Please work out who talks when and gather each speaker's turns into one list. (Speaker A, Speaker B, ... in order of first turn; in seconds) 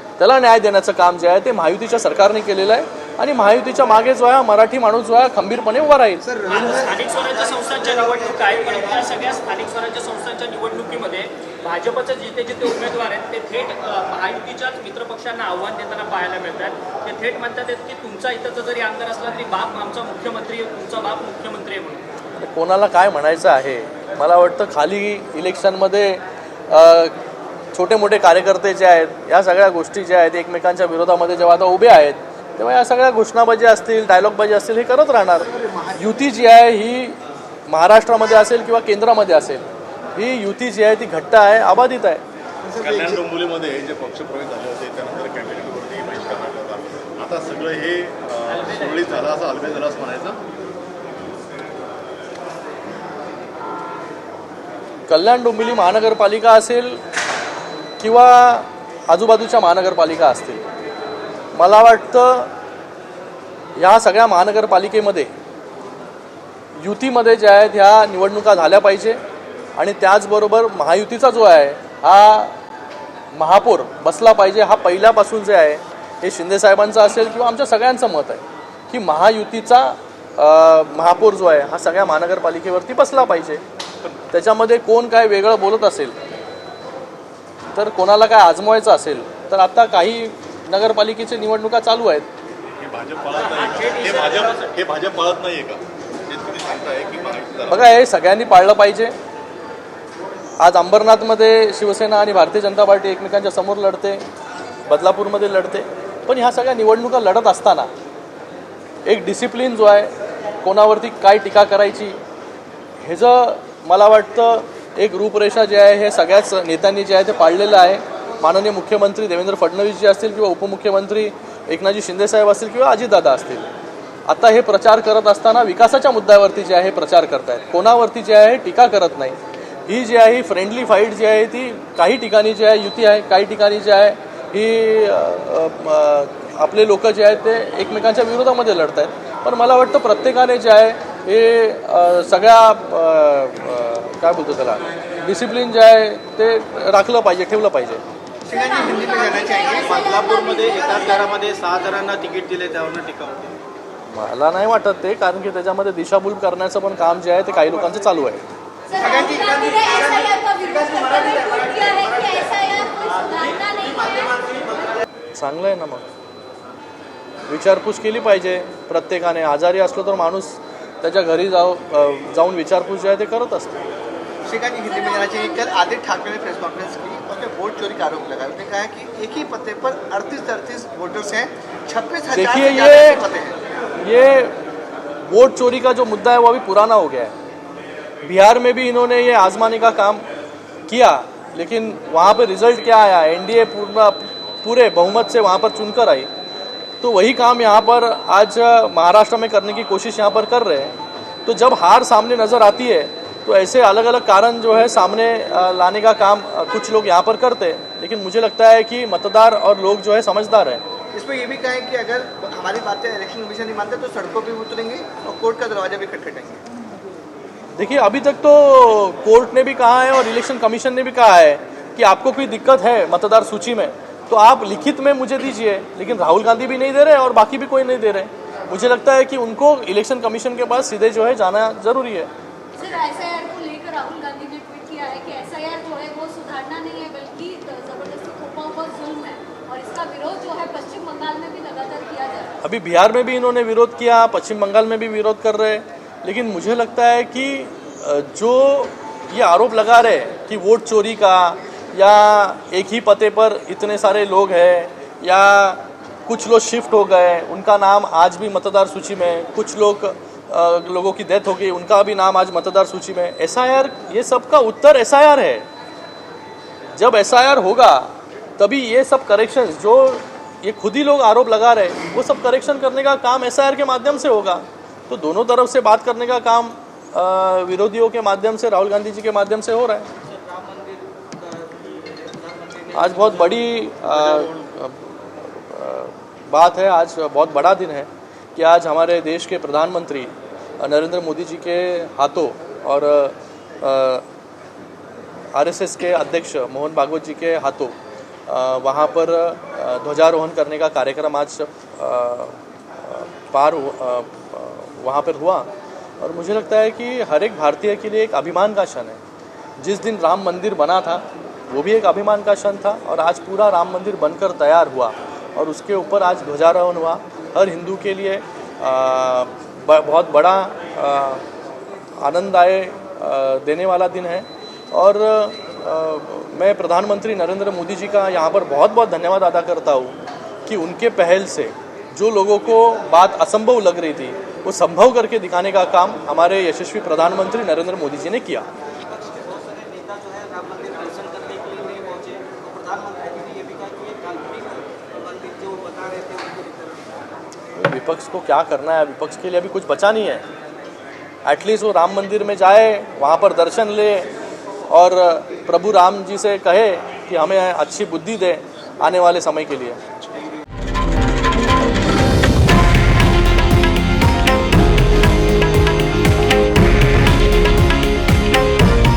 Speaker A: 0.2-6.3, 22.4-27.2, 27.7-42.2, 55.1-57.0, 58.0-60.6, 61.5-62.5, 63.8-65.3, 66.8-69.2, 69.8-72.6, 73.3-83.6, 84.3-86.2, 87.8-92.3, 97.7-99.2, 100.6-104.2, 104.9-107.9, 109.0-110.1, 110.6-112.2, 113.0-123.7, 124.3-148.0, 154.1-158.4, 165.3-166.1, 167.5-173.9, 182.3-183.2, 184.0-184.6, 185.3-187.3, 188.2-190.2, 190.9-196.3, 197.0-200.9, 201.5-210.8, 217.8-232.3, 242.6-265.7, 266.9-280.1, 282.9-294.2, 295.5-309.2, 309.8-321.4, 322.2-338.7, 347.8-350.4, 351.4-354.3, 354.9-360.0
Speaker B: 6.3-8.1, 35.5-36.0, 42.7-43.2, 148.5-150.1, 159.0-159.9, 174.4-183.6, 211.1-216.6
Speaker C: 6.5-22.0, 48.6-49.1, 93.3-94.7
Speaker D: 42.8-50.4, 92.8-98.0
Speaker E: 148.5-151.3, 158.9-165.0, 174.9-175.8, 232.8-242.6
Speaker F: 149.8-153.6, 280.2-284.6, 339.1-347.1